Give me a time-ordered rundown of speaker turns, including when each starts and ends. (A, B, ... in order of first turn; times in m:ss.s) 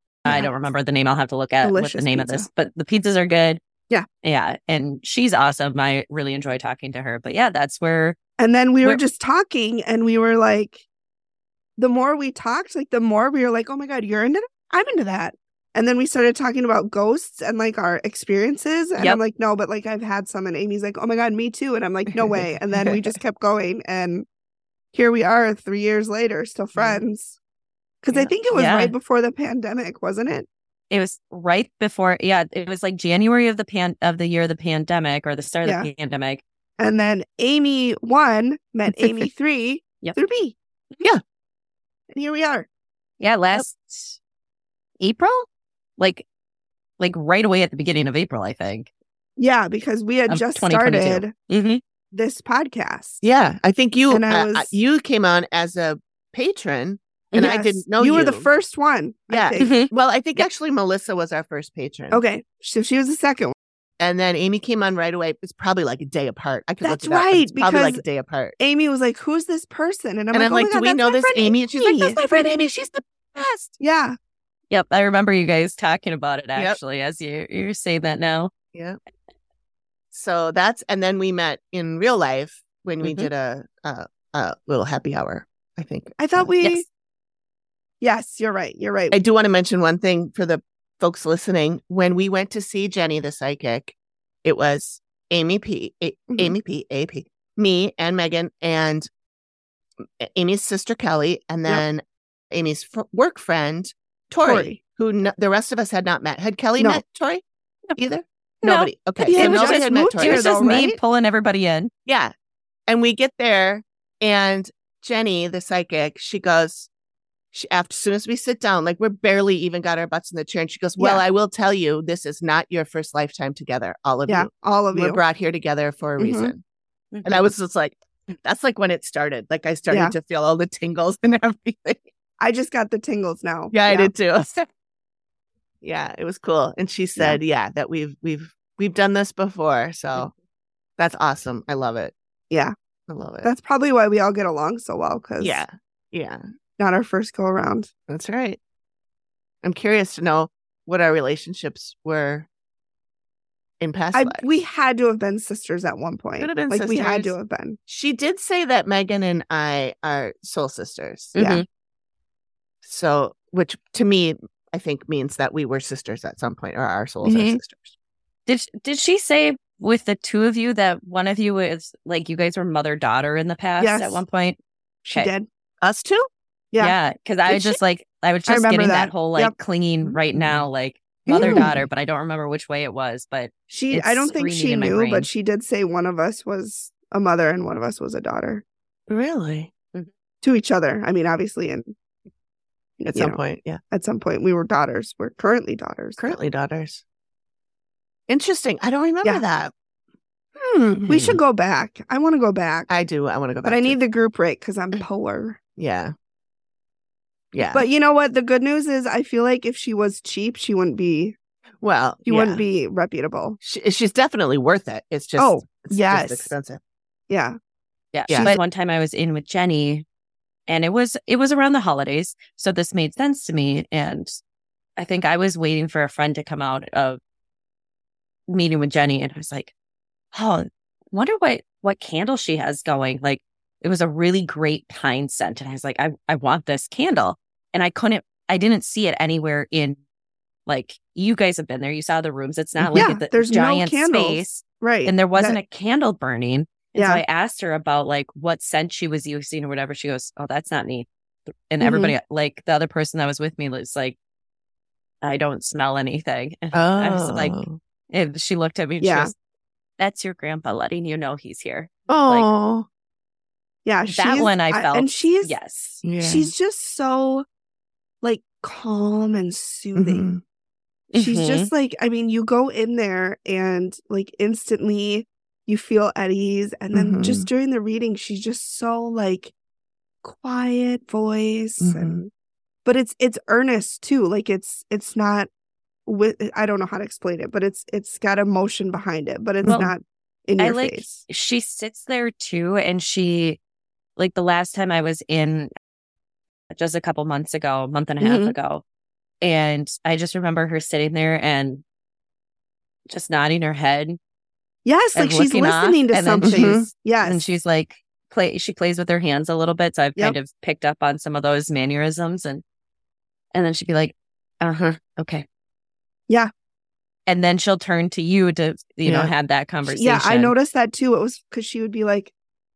0:00.2-0:03.6 A
0:01.6-0:02.5 B
0:04.2-0:08.2 A
0:08.4-0:10.8 B
0:11.8-0:24.2 B
0:22.2-0:22.9 C
0:24.9-0:27.4 B
0:28.0-0:30.5 B
0:28.1-0:28.9 A
0:30.9-0:36.4 A
0:35.6-0:35.9 B
0:36.8-0:40.6 B
0:42.1-0:42.7 B
0:43.2-0:44.2 A
0:45.0-0:45.5 A
0:46.0-0:46.2 A
0:47.0-0:48.9 A
0:49.4-0:51.3 B
0:50.3-0:51.8 A
0:52.1-0:53.2 B
0:53.2-0:58.5 C
0:54.1-0:54.7 B
0:57.4-0:59.7 B
0:59.3-1:02.2 C
0:59.6-1:00.4 A
1:02.1-1:03.5 B
1:04.0-1:08.6 C
1:06.8-1:08.0 B
1:08.6-1:12.2 B
1:10.3-1:12.3 C
1:12.0-1:13.7 A
1:13.8-1:14.2 B
1:14.7-1:18.5 A
1:18.7-1:19.0 C
1:20.1-1:26.5 C
1:23.0-1:23.3 A
1:26.2-1:26.8 B
1:28.0-1:29.2 B
1:29.1-1:39.1 C
1:36.3-1:36.6 B
1:40.2-1:47.4 C
1:44.4-1:44.8 B
1:48.0-1:50.5 C
1:48.6-1:51.9 A
1:49.2-1:51.0 B
1:52.0-1:52.3 C
1:52.9-1:56.9 C
1:57.5-2:06.6 C
2:04.3-2:05.2 B
2:06.2-2:06.5 B
2:07.1-2:07.4 A
2:07.2-2:12.0 C
2:12.4-2:14.1 B
2:13.7-2:14.6 C
2:15.8-2:20.3 C
2:21.0-2:22.1 C
2:23.1-2:23.5 C
2:23.4-2:25.6 B
2:25.4-2:26.4 C
2:26.8-2:27.9 B
2:28.1-2:28.6 C
2:29.6-2:32.5 C
2:33.8-2:34.4 C
2:34.1-2:37.8 B
2:36.4-2:37.3 C
2:37.9-2:41.4 C
2:41.3-2:41.6 A
2:41.4-2:41.6 B
2:42.8-2:47.9 C
2:47.2-2:47.6 B
2:48.4-2:54.6 A
2:53.8-2:54.2 B
2:55.0-2:55.5 B
2:55.8-2:56.3 C
2:56.8-3:05.3 A
2:57.5-2:57.7 B
2:58.5-2:59.5 B
3:00.0-3:00.6 C
3:01.2-3:01.9 C
3:01.3-3:01.7 B
3:03.7-3:08.6 B
3:09.1-3:09.7 C
3:10.4-3:11.9 B
3:13.0-3:16.4 B
3:13.1-3:13.8 C
3:16.2-3:17.0 C
3:18.3-3:19.7 C
3:20.6-3:21.4 C
3:21.0-3:22.9 B
3:22.9-3:24.0 C
3:23.6-3:25.6 B
3:25.8-3:26.1 C
3:27.5-3:27.8 C
3:27.7-3:31.3 B
3:31.8-3:32.6 C
3:32.2-3:33.6 B
3:33.6-3:36.8 C
3:35.4-3:36.5 B
3:37.3-3:37.6 B
3:38.1-3:40.0 A
3:38.3-3:38.5 C
3:40.7-3:44.3 A
3:45.0-3:47.2 A
3:48.5-3:49.7 A
3:50.3-4:00.0 A
4:00.7-4:11.1 A
4:02.8-4:03.1 C
4:02.9-4:05.6 B
4:07.0-4:07.2 B
4:11.7-4:14.2 A
4:11.8-4:12.1 B
4:15.2-4:17.6 A
4:16.7-4:17.8 C
4:18.1-4:19.3 A
4:19.0-4:19.3 B
4:20.0-4:22.5 A
4:22.1-4:22.9 C
4:23.8-4:25.5 B
4:24.1-4:26.0 A
4:26.0-4:26.5 C
4:26.2-4:27.4 B
4:28.2-4:30.3 B
4:29.9-4:30.4 C
4:31.1-4:31.7 A
4:31.2-4:39.5 B
4:36.9-4:37.5 C
4:40.2-4:42.3 B
4:41.8-4:42.2 C
4:42.8-4:45.5 B
4:46.0-4:51.2 B
4:49.6-4:49.9 C
4:50.6-4:53.6 A
4:54.2-4:55.7 A
4:56.7-4:58.8 A
4:58.2-4:58.5 B
4:59.4-5:01.8 A
5:03.1-5:04.2 A
5:04.8-5:07.4 B
5:05.1-5:12.6 A
5:06.4-5:06.9 C
5:13.5-5:15.4 A
5:17.3-5:20.5 A
5:19.0-5:19.3 C
5:19.8-5:22.3 B